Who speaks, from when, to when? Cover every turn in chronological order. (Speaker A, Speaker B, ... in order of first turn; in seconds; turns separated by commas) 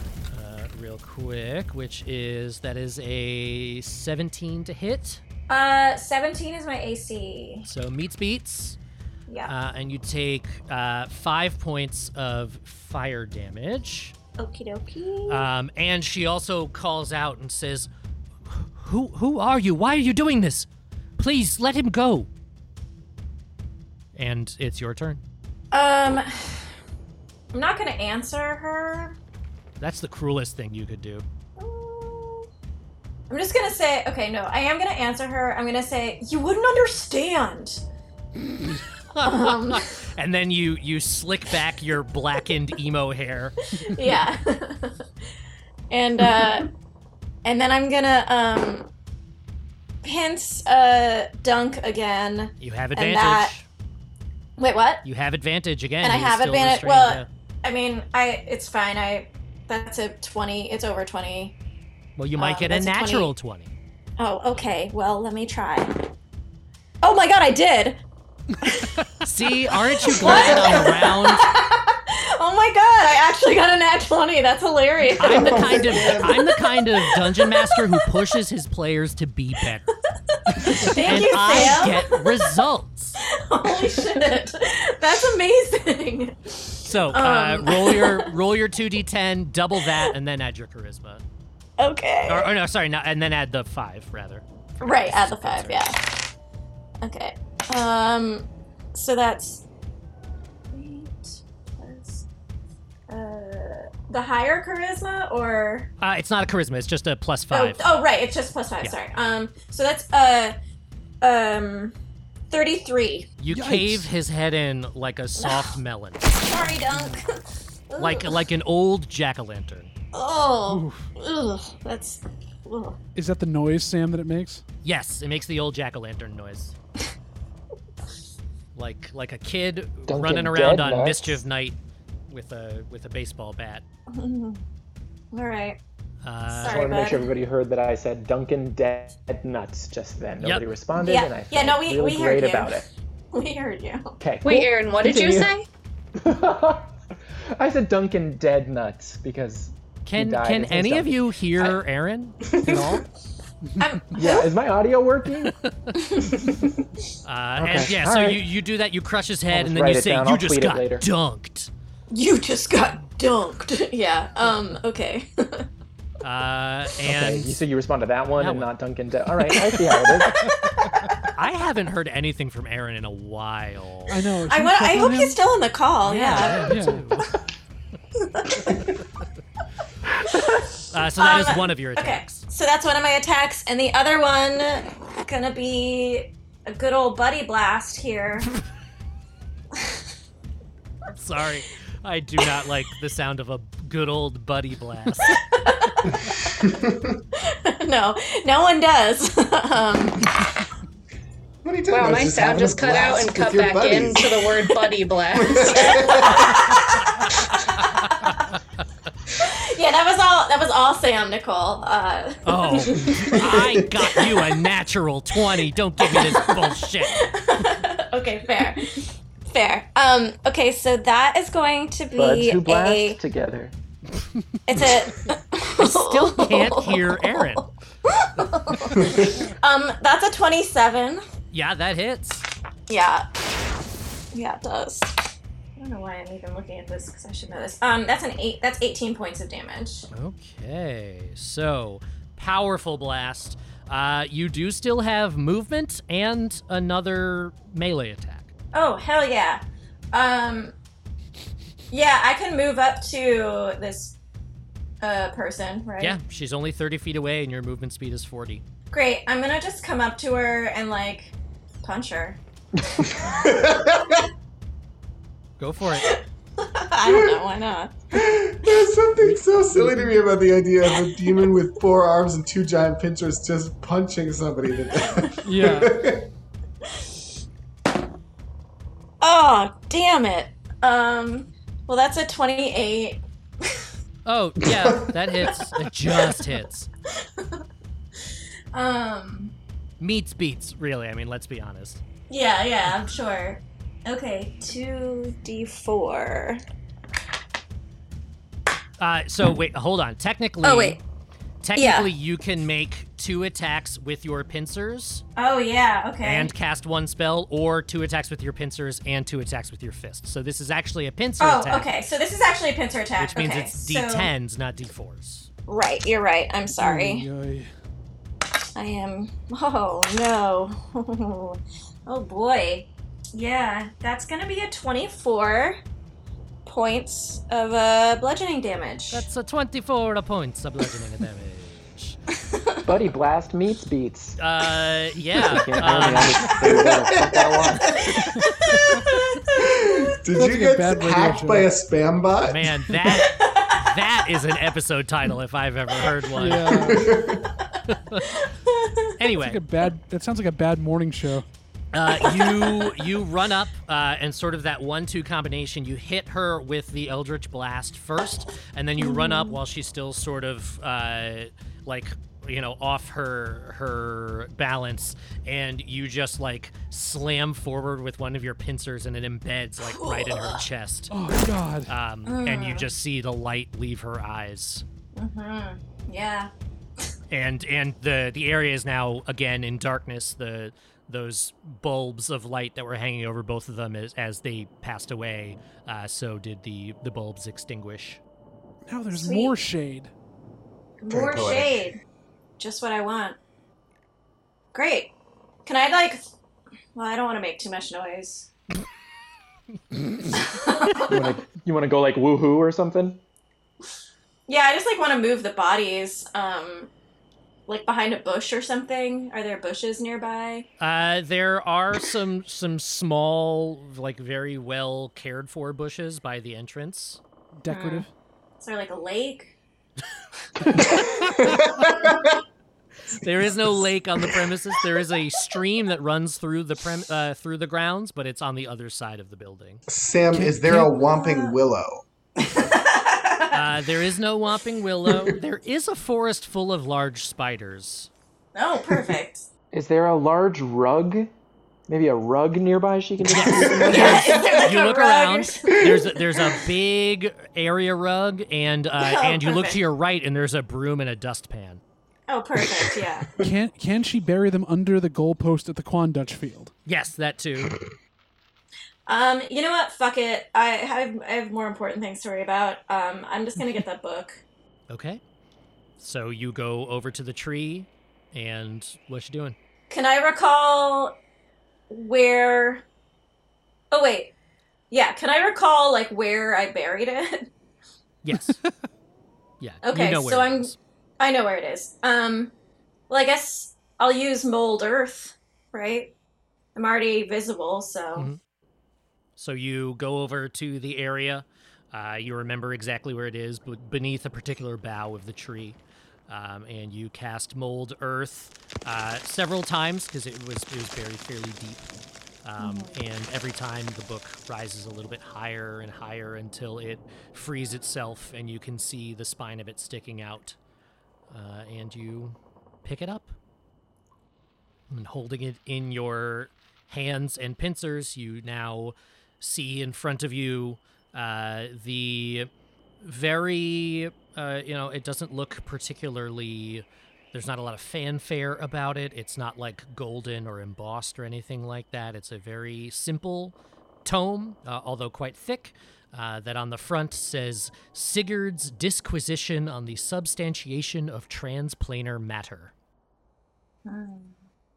Speaker A: 0.3-5.2, Speaker B: 5.5-7.7, Speaker A: 7.7-8.8, Speaker B: 9.3-9.5, Speaker A: 9.4-14.2, Speaker B: 14.4-15.5, Speaker A: 15.3-17.9, Speaker A: 18.4-22.3, Speaker A: 24.1-25.2, Speaker B: 25.7-26.7, Speaker B: 27.5-29.1, Speaker A: 29.8-31.2, Speaker B: 31.6-32.5, Speaker B: 33.3-37.8, Speaker A: 39.1-43.5, Speaker B: 39.2-40.0, Speaker B: 43.8-45.0, Speaker B: 45.9-46.7, Speaker B: 47.4-48.9, Speaker B: 50.0-53.6, Speaker A: 52.6-53.7, Speaker B: 54.6-55.0, Speaker A: 55.0-57.3, Speaker B: 56.0-61.5, Speaker A: 62.2-63.7, Speaker B: 62.4-63.3, Speaker B: 64.2-66.0, Speaker B: 67.0-68.0, Speaker A: 69.2-71.5, Speaker B: 70.0-77.9, Speaker C: 70.2-70.9, Speaker A: 75.2-79.9, Speaker C: 75.2-76.3, Speaker B: 80.6-82.5, Speaker A: 80.9-83.2, Speaker B: 83.5-88.4, Speaker A: 86.8-91.2, Speaker B: 89.8-90.1, Speaker B: 91.8-92.5, Speaker A: 92.3-95.9, Speaker B: 94.8-96.0, Speaker B: 97.0-99.7, Speaker B: 100.7-102.3, Speaker B: 103.1-105.9, Speaker A: 106.0-107.9, Speaker B: 107.5-110.5, Speaker B: 111.2-112.0, Speaker B: 112.5-113.3, Speaker A: 113.4-116.4, Speaker D: 113.5-114.1, Speaker B: 115.4-115.7, Speaker B: 116.3-117.3, Speaker B: 117.9-118.4, Speaker A: 118.0-119.9, Speaker B: 120.1-123.0, Speaker D: 120.7-121.1, Speaker D: 123.2-124.6, Speaker A: 124.8-126.8, Speaker A: 128.8-131.8, Speaker E: 130.1-131.4, Speaker A: 132.3-133.8, Speaker B: 134.1-134.6, Speaker B: 135.3-135.8, Speaker A: 136.2-137.0, Speaker B: 136.5-137.3, Speaker E: 136.6-142.9, Speaker A: 140.4-140.7, Speaker B: 141.0-144.2, Speaker E: 144.2-145.5, Speaker F: 144.4-145.7, Speaker E: 146.2-146.9, Speaker E: 147.6-151.8, Speaker A: 150.1-153.1, Speaker B: 153.8-154.5, Speaker E: 154.1-155.6, Speaker A: 155.5-156.0, Speaker B: 156.0-156.4, Speaker E: 156.5-156.7, Speaker A: 157.2-161.7, Speaker E: 157.6-158.4, Speaker E: 159.5-161.1, Speaker B: 162.1-165.7, Speaker A: 166.2-167.6, Speaker E: 167.0-170.3, Speaker A: 168.4-168.7, Speaker A: 170.3-174.2, Speaker D: 174.1-175.4, Speaker B: 174.4-176.8, Speaker A: 176.0-177.3, Speaker D: 176.6-177.1, Speaker B: 178.3-178.8, Speaker A: 178.6-179.0, Speaker B: 180.3-188.5, Speaker A: 180.9-182.5, Speaker A: 191.1-195.4, Speaker B: 195.6-195.9, Speaker C: 196.2-197.2, Speaker B: 197.7-200.3, Speaker C: 201.6-204.5, Speaker F: 201.9-206.0, Speaker C: 205.3-206.8, Speaker B: 205.7-207.2, Speaker A: 207.8-208.4, Speaker B: 209.4-214.5, Speaker A: 212.4-217.2, Speaker B: 216.0-223.2, Speaker E: 222.2-223.8, Speaker B: 224.7-231.2, Speaker A: 225.8-227.7, Speaker A: 228.4-229.1, Speaker A: 231.5-232.4, Speaker B: 232.9-233.2, Speaker B: 234.3-240.1, Speaker A: 240.1-248.5, Speaker B: 248.7-249.6, Speaker B: 250.1-250.8, Speaker B: 251.9-254.2, Speaker B: 255.0-256.2, Speaker A: 256.0-258.6, Speaker B: 258.9-262.4, Speaker C: 263.3-264.2, Speaker A: 265.6-266.1, Speaker B: 265.9-266.2, Speaker B: 266.8-267.9, Speaker C: 267.0-267.4, Speaker C: 268.1-276.3, Speaker D: 269.2-270.2, Speaker B: 270.9-271.4, Speaker D: 275.4-275.9, Speaker B: 279.2-283.7, Speaker A: 284.3-286.9, Speaker C: 284.6-285.1, Speaker B: 286.1-286.5, Speaker B: 288.7-289.5, Speaker A: 290.0-292.0, Speaker B: 292.3-296.6, Speaker A: 299.0-301.0, Speaker B: 300.6-301.0, Speaker A: 301.6-305.2, Speaker B: 301.8-302.1, Speaker B: 305.4-306.5, Speaker A: 306.2-311.9, Speaker B: 311.4-314.3, Speaker A: 313.2-315.5, Speaker B: 315.7-317.3, Speaker D: 316.8-317.7, Speaker B: 318.8-325.8, Speaker B: 326.7-329.3, Speaker A: 329.1-332.2, Speaker E: 332.9-334.4, Speaker A: 334.4-336.6, Speaker E: 335.4-338.3, Speaker C: 336.6-337.8, Speaker B: 339.1-339.5, Speaker C: 339.6-342.7, Speaker D: 340.4-341.7, Speaker A: 342.5-347.0, Speaker B: 343.3-343.8, Speaker D: 346.4-347.1, Speaker C: 346.9-347.4, Speaker A: 347.9-348.2, Speaker B: 348.3-349.1, Speaker A: 349.2-349.6, Speaker D: 349.4-351.5, Speaker A: 351.9-371.2, Speaker B: 352.1-352.8, Speaker B: 359.0-359.6, Speaker B: 369.8-370.6, Speaker D: 371.1-371.9, Speaker A: 371.9-374.8, Speaker B: 372.3-372.9, Speaker B: 375.1-376.5, Speaker A: 377.3-388.2, Speaker D: 388.9-390.1, Speaker B: 389.1-389.6, Speaker B: 391.0-392.0, Speaker C: 391.1-391.9, Speaker B: 392.6-393.4, Speaker B: 394.7-395.1, Speaker B: 395.7-396.2, Speaker B: 396.9-398.5, Speaker B: 400.4-401.3, Speaker E: 401.1-403.2, Speaker B: 404.5-406.9, Speaker B: 407.7-410.7, Speaker A: 410.8-417.2, Speaker D: 417.6-418.1, Speaker B: 417.7-418.1, Speaker B: 418.6-419.6, Speaker C: 420.7-422.4, Speaker A: 423.2-429.8, Speaker C: 429.9-432.1, Speaker D: 430.3-430.9, Speaker B: 431.0-431.6, Speaker B: 432.5-433.6, Speaker A: 433.5-438.1, Speaker B: 438.6-439.5, Speaker E: 439.7-441.3, Speaker E: 441.9-444.4, Speaker A: 443.3-451.8, Speaker C: 443.7-444.0, Speaker B: 443.9-445.8, Speaker B: 449.0-449.8, Speaker B: 452.3-453.3, Speaker C: 452.6-453.0, Speaker D: 453.4-456.7, Speaker A: 456.9-457.8, Speaker B: 459.1-464.4, Speaker A: 464.9-465.2, Speaker A: 466.0-469.6, Speaker B: 469.9-471.2, Speaker B: 471.9-472.9, Speaker B: 473.9-474.3, Speaker B: 474.9-477.5, Speaker A: 478.2-478.6, Speaker D: 478.3-478.7, Speaker A: 479.6-480.8, Speaker B: 479.8-482.5, Speaker B: 483.1-486.1, Speaker B: 486.8-488.3, Speaker A: 488.1-488.4, Speaker A: 489.4-501.9, Speaker A: 502.4-510.6, Speaker B: 502.6-502.9, Speaker A: 511.3-513.4, Speaker A: 514.9-522.5, Speaker A: 523.0-542.7, Speaker B: 543.9-544.4